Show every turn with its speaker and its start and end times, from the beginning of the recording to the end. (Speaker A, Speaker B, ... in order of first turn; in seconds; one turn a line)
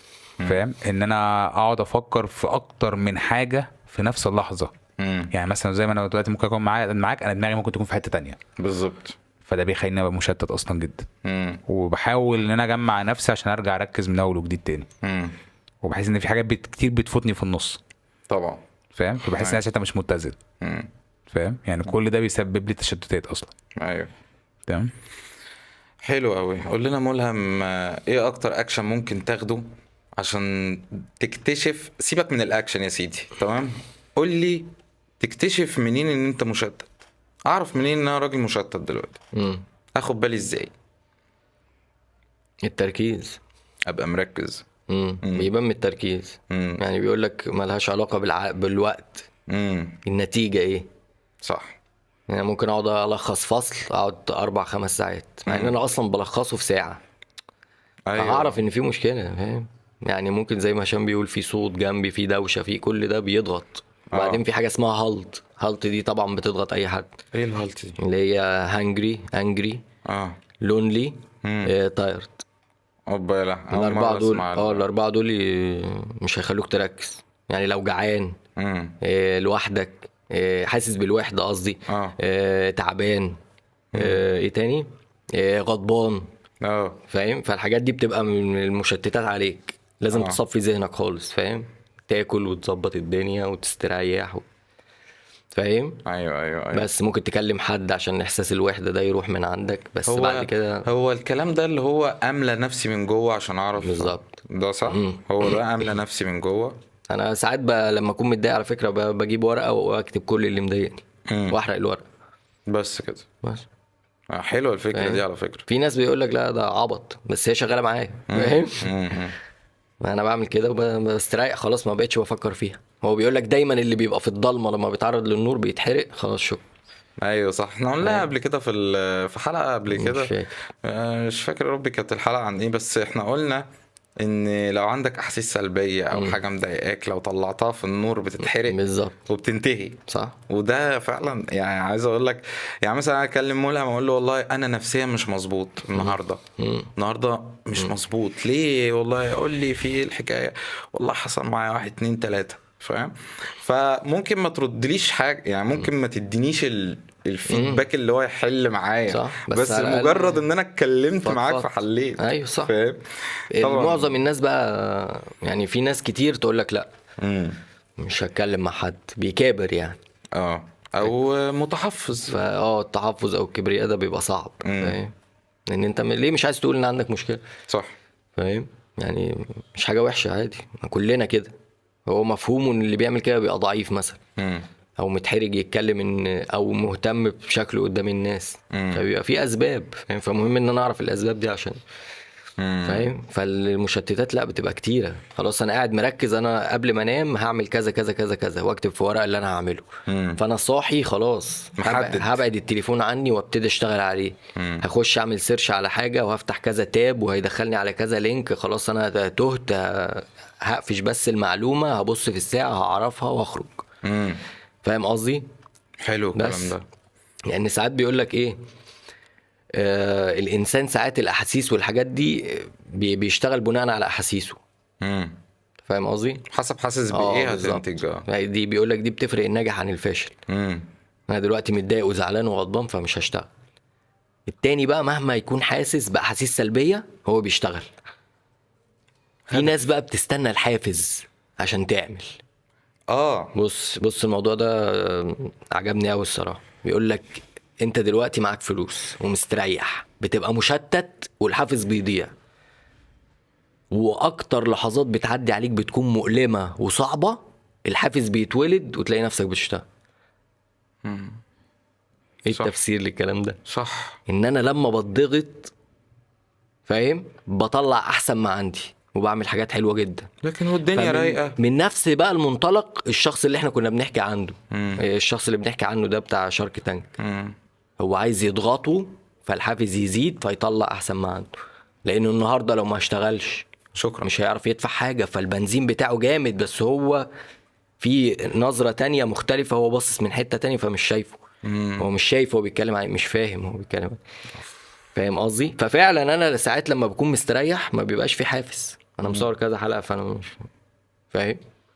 Speaker A: 0.4-4.7
Speaker B: 5.0-5.3
Speaker A: 5.3-8.4
Speaker B: 8.6-9.2
Speaker A: 9.4-11.1
Speaker B: 11.2-11.6
Speaker A: 11.7-14.9
Speaker B: 15.0-15.3
Speaker A: 15.8-17.8
Speaker B: 18.3-18.6
Speaker A: 18.9-20.4
Speaker B: 19.4-19.6
Speaker B: 20.6-20.9
Speaker A: 21.3-23.5
Speaker B: 23.8-24.1
Speaker A: 24.7-24.9
Speaker B: 26.0-36.9
Speaker B: 37.5-39.2
Speaker C: 39.3-39.6
Speaker B: 40.0-40.7
Speaker C: 42.6-43.4
Speaker B: 43.9-44.6
Speaker C: 44.9-49.3
Speaker B: 45.2-45.5
Speaker B: 46.5-46.8
Speaker B: 49.5-50.0
Speaker C: 50.0-50.9
Speaker B: 51.4-51.8
Speaker C: 52.3-57.0
Speaker B: 55.5-55.7
Speaker B: 58.1-58.6
Speaker C: 58.2-67.1
Speaker B: 64.1-64.4
Speaker B: 67.3-68.0
Speaker C: 68.0-69.8
Speaker B: 70.0-70.4
Speaker C: 70.6-72.4
Speaker B: 71.4-71.7
Speaker B: 73.1-74.8
Speaker C: 73.7-78.4
Speaker B: 78.6-79.0
Speaker C: 79.0-83.4
Speaker B: 81.9-82.2
Speaker B: 83.9-84.2
Speaker C: 83.9-86.3
Speaker B: 86.6-87.0
Speaker C: 87.1-94.4
Speaker B: 90.1-90.4
Speaker C: 95.5-96.0
Speaker B: 96.0-96.9
Speaker C: 96.7-100.8
Speaker B: 100.1-106.8
Speaker C: 103.8-104.4
Speaker C: 104.9-105.6
Speaker C: 107.1-112.0
Speaker B: 111.3-111.6
Speaker B: 112.7-113.2
Speaker B: 114.3-115.7
Speaker C: 114.9-118.9
Speaker B: 118.3-119.3
Speaker C: 120.0-126.6
Speaker B: 127.2-130.3
Speaker C: 128.0-128.3
Speaker C: 129.9-130.5
Speaker B: 130.8-133.7
Speaker B: 134.2-146.4
Speaker C: 138.6-139.2
Speaker C: 140.1-140.3
Speaker C: 145.9-146.9
Speaker B: 146.9-164.1
Speaker C: 157.5-157.8
Speaker C: 159.1-160.4
Speaker C: 161.2-162.7
Speaker C: 163.5-166.9
Speaker B: 167.2-167.6
Speaker C: 168.0-170.0
Speaker B: 170.3-172.4
Speaker C: 172.3-175.1
Speaker B: 174.6-175.0
Speaker C: 175.7-177.4
Speaker C: 178.4-181.5
Speaker C: 182.1-184.2
Speaker B: 184.4-184.7
Speaker C: 185.0-191.8
Speaker B: 188.7-189.0
Speaker B: 192.6-193.1
Speaker C: 192.8-213.8
Speaker B: 200.1-200.4
Speaker B: 201.8-202.4
Speaker B: 204.6-204.8
Speaker B: 214.0-214.4
Speaker C: 214.8-215.4
Speaker B: 216.0-216.8
Speaker C: 216.3-216.7
Speaker C: 217.5-218.6
Speaker C: 219.7-224.6
Speaker B: 225.0-225.4
Speaker C: 225.8-226.4
Speaker B: 226.5-228.2
Speaker C: 227.1-230.3
Speaker B: 230.5-230.9
Speaker C: 231.3-233.5
Speaker C: 234.5-237.9
Speaker C: 239.5-242.4
Speaker B: 243.1-243.5
Speaker C: 243.5-252.3
Speaker C: 253.9-259.8
Speaker B: 261.0-261.4
Speaker C: 262.4-263.6
Speaker B: 263.7-264.2
Speaker C: 264.3-265.7
Speaker C: 266.9-270.3
Speaker B: 270.4-271.6
Speaker C: 270.9-277.1
Speaker B: 274.7-275.0
Speaker B: 277.2-277.6
Speaker C: 278.0-281.5
Speaker C: 282.1-283.6
Speaker B: 283.9-284.3
Speaker C: 284.2-287.3
Speaker C: 288.0-291.4
Speaker B: 291.6-292.1
Speaker C: 292.0-294.2
Speaker C: 295.1-300.6
Speaker C: 301.3-301.6